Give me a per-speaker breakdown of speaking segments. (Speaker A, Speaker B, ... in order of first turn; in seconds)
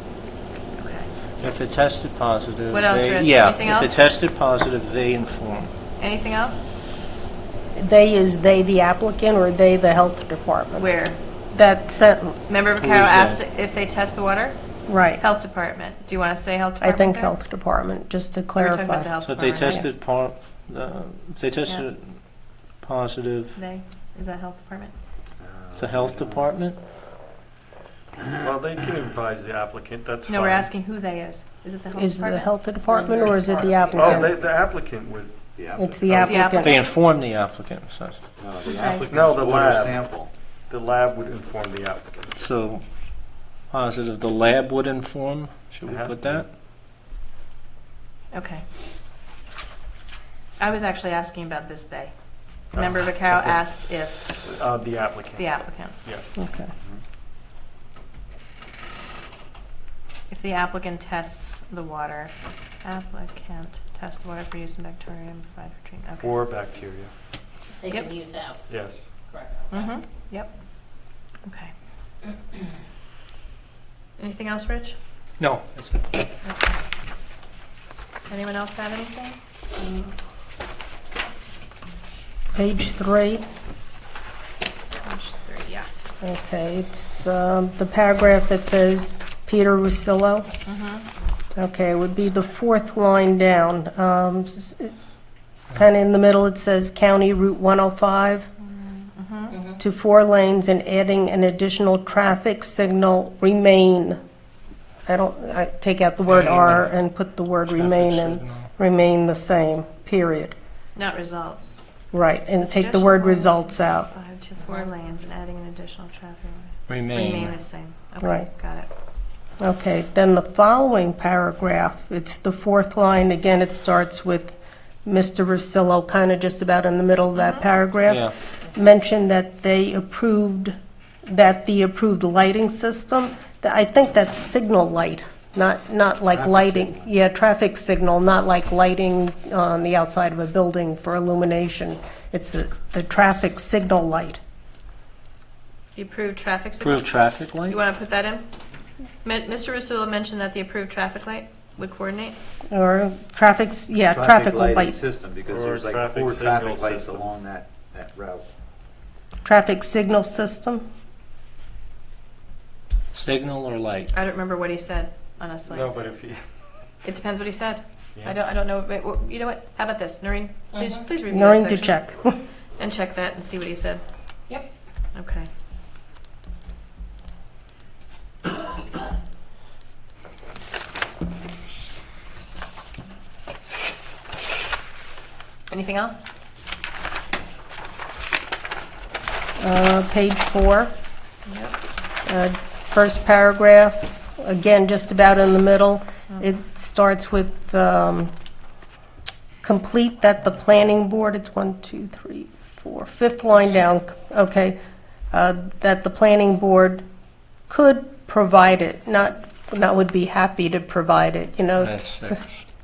Speaker A: 0.8-1.1, 2.7-4.0, 6.0-6.7, 10.8-11.2, 12.5-14.6, 15.2-17.4, 18.6-19.9, 23.6-24.9, 30.3-34.4, 36.2-36.8, 38.7-39.0, 48.3-48.6, 50.6-52.1, 52.7-54.4, 55.4-56.0, 60.3-66.4, 69.7-70.5, 71.4-71.7, 74.2-75.0, 76.4-76.8, 78.3-79.4, 85.0-85.9, 90.7-91.1, 98.8-99.6, 111.0-111.8, 112.6-118.9, 127.4-127.7, 145.9-147.2, 147.7-148.4, 149.2-152.3, 164.1-165.9, 167.0-172.0, 172.8-174.0, 175.1-175.5, 185.7-186.3, 191.5-191.8
Speaker B: 1.4-5.7, 12.8-13.4, 19.2-22.2, 22.8-23.6, 25.8-26.8, 36.5-38.2, 42.4-42.8, 43.7-46.5, 75.4-76.1, 106.3-106.9, 107.7-108.7, 116.9-117.6, 128.1-128.3, 146.8-147.8, 163.1-164.1, 211.8-212.4
Speaker C: 7.8-10.9, 11.5-12.6, 14.9-15.2, 16.8-19.1, 31.9-34.3, 35.8-36.8, 56.4-56.7, 82.5-83.4, 86.2-90.5, 91.5-94.9, 95.7-98.5, 99.8-104.2, 105.1-110.5, 112.1-114.1, 118.2-118.5, 119.6-144.4, 152.7-155.0, 159.4-160.8, 171.3-172.4, 189.6-190.9, 192.3-198.3, 199.6-204.8, 205.3-207.0, 207.7-212.4
Speaker D: 25.4-26.5, 28.2-28.5, 35.6-35.9, 38.4-40.3, 136.3-137.1, 154.1-158.5
Speaker E: 28.4-30.7, 34.0-36.4, 39.1-40.0, 40.7-42.3, 45.8-46.5, 52.7-53.1, 54.4-55.5, 66.1-67.1, 68.7-69.1, 155.5-157.3, 165.7-166.4
Speaker F: 67.8-68.6, 69.3-69.9, 99.5-99.8, 170.7-171.0